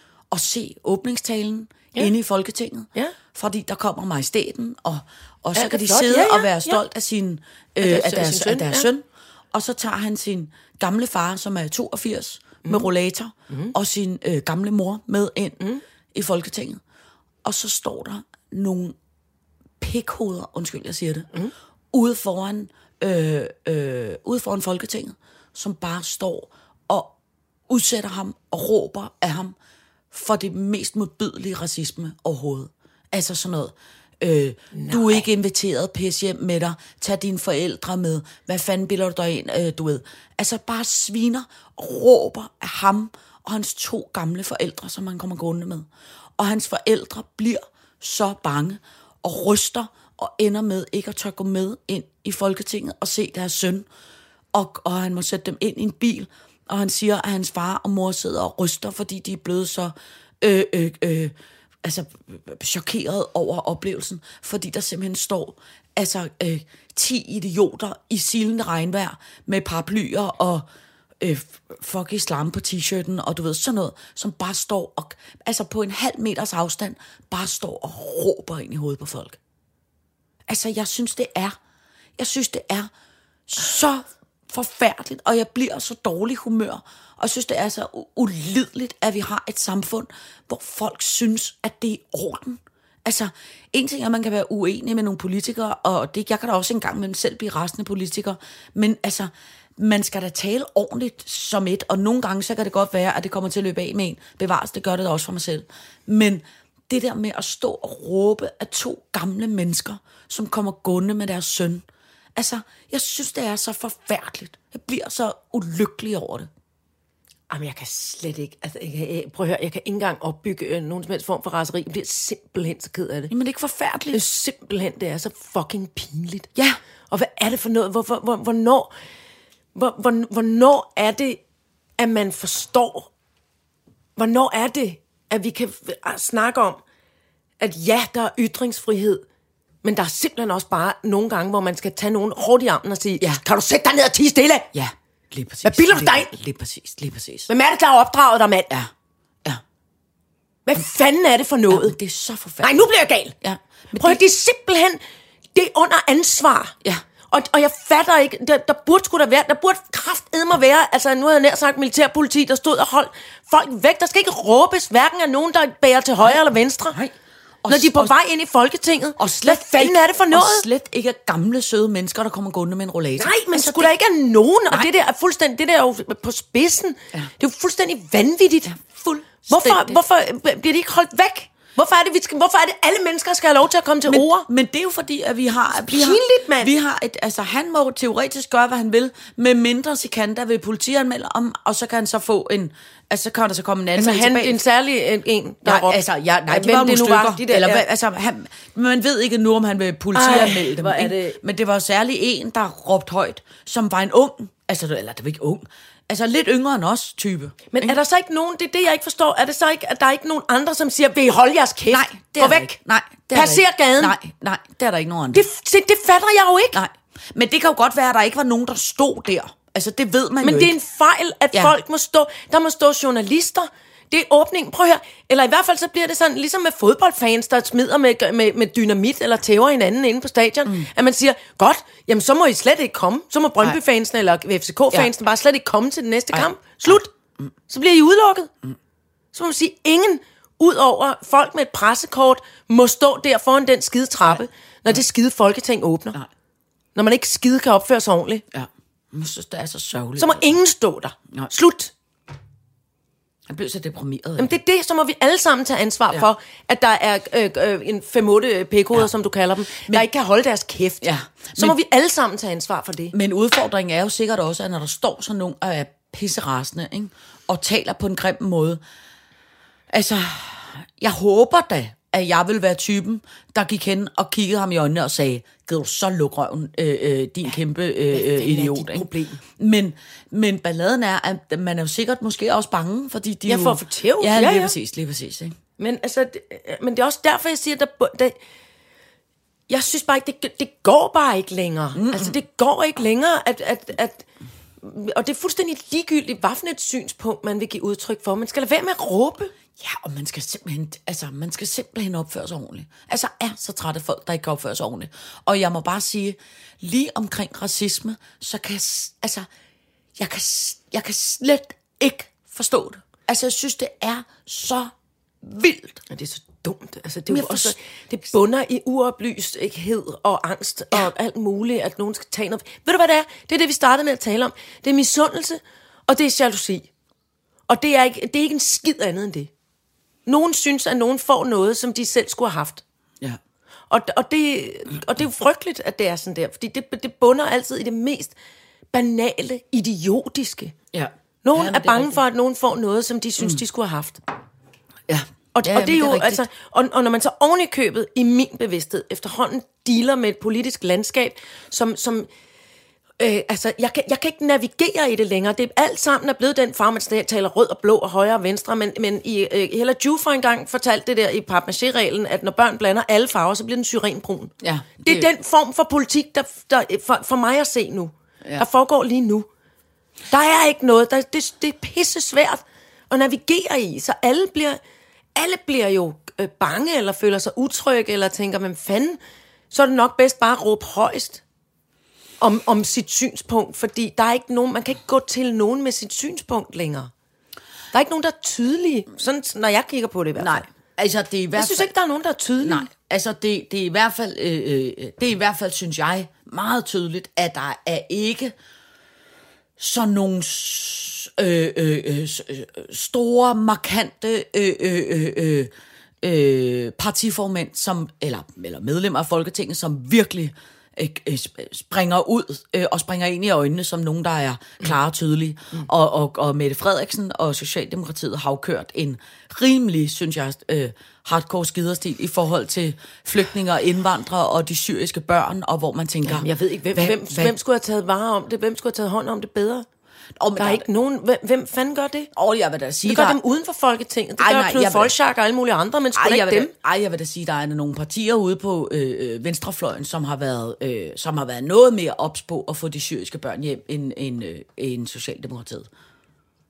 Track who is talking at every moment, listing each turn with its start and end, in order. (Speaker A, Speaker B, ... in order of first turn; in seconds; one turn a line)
Speaker A: 0.3-15.6
Speaker B: 5.5-6.8
Speaker B: 7.8-8.9
Speaker B: 13.5-13.8
Speaker A: 16.1-16.8
Speaker A: 17.4-19.0
Speaker A: 19.8-21.3
Speaker A: 21.9-27.1
Speaker A: 27.7-29.6
Speaker A: 30.1-45.9
Speaker B: 34.7-35.3
Speaker A: 46.4-53.9
Speaker A: 54.5-70.7
Speaker A: 71.2-79.4
Speaker A: 80.5-81.6
Speaker A: 82.2-82.9
Speaker A: 83.5-111.8
Speaker A: 112.4-116.5
Speaker B: 117.5-123.3
Speaker A: 123.3-124.2
Speaker B: 124.1-126.5
Speaker B: 127.1-128.9
Speaker B: 129.8-131.4
Speaker B: 132.0-133.1
Speaker B: 134.2-136.8
Speaker B: 137.6-139.2
Speaker B: 139.8-144.7
Speaker A: 144.7-147.5
Speaker B: 145.6-146.3
Speaker B: 147.5-148.7
Speaker B: 150.7-152.0
Speaker A: 151.7-152.8
Speaker B: 152.6-153.3
Speaker A: 153.4-154.2
Speaker B: 154.0-155.0
Speaker B: 155.5-156.8
Speaker B: 157.3-167.0
Speaker A: 166.9-168.1
Speaker B: 167.7-170.7
Speaker A: 169.2-173.9
Speaker B: 173.2-184.5
Speaker A: 178.7-180.0
Speaker A: 184.1-194.6
Speaker B: 185.9-186.7
Speaker B: 193.9-197.8
Speaker A: 195.7-207.9
Speaker B: 200.1-201.4
Speaker B: 207.7-212.7
Speaker A: 211.9-215.4
Speaker B: 213.3-214.2
Speaker B: 215.3-216.8
Speaker A: 216.7-220.7
Speaker B: 220.4-237.1
Speaker A: 236.3-237.0
Speaker B: 237.7-238.5
Speaker B: 239.3-246.2
Speaker B: 247.0-248.4
Speaker A: 248.5-250.6
Speaker B: 250.2-251.9
Speaker A: 253.5-254.6
Speaker B: 254.4-263.1
Speaker A: 261.0-261.8
Speaker A: 263.1-268.8
Speaker A: 269.9-285.6
Speaker B: 278.1-279.4
Speaker B: 283.5-284.8
Speaker B: 285.8-288.4
Speaker B: 289.7-294.3
Speaker A: 291.9-292.4
Speaker B: 294.8-299.5
Speaker A: 299.8-309.5
Speaker A: 310.2-314.9
Speaker A: 315.4-316.0
Speaker B: 316.1-326.9
Speaker A: 317.3-317.7
Speaker B: 327.7-329.5
Speaker B: 330.3-332.8
Speaker B: 333.9-338.4
Speaker B: 338.9-340.8
Speaker A: 340.9-342.2
Speaker B: 341.4-344.2
Speaker A: 345.1-346.5
Speaker B: 345.5-352.3
Speaker B: 353.2-369.5
Speaker A: 364.6-365.3
Speaker B: 370.3-374.8
Speaker B: 375.4-379.2
Speaker B: 379.7-381.4
Speaker B: 382.4-387.1
Speaker B: 387.9-390.7
Speaker A: 390.4-391.9
Speaker B: 391.6-392.9
Speaker A: 392.6-398.6
Speaker A: 399.8-405.7
Speaker A: 406.2-427.5
Speaker B: 426.3-429.9
Speaker A: 430.4-430.9
Speaker B: 430.6-432.3
Speaker A: 432.4-433.4
Speaker B: 433.1-436.7
Speaker A: 434.4-435.1
Speaker A: 436.1-445.9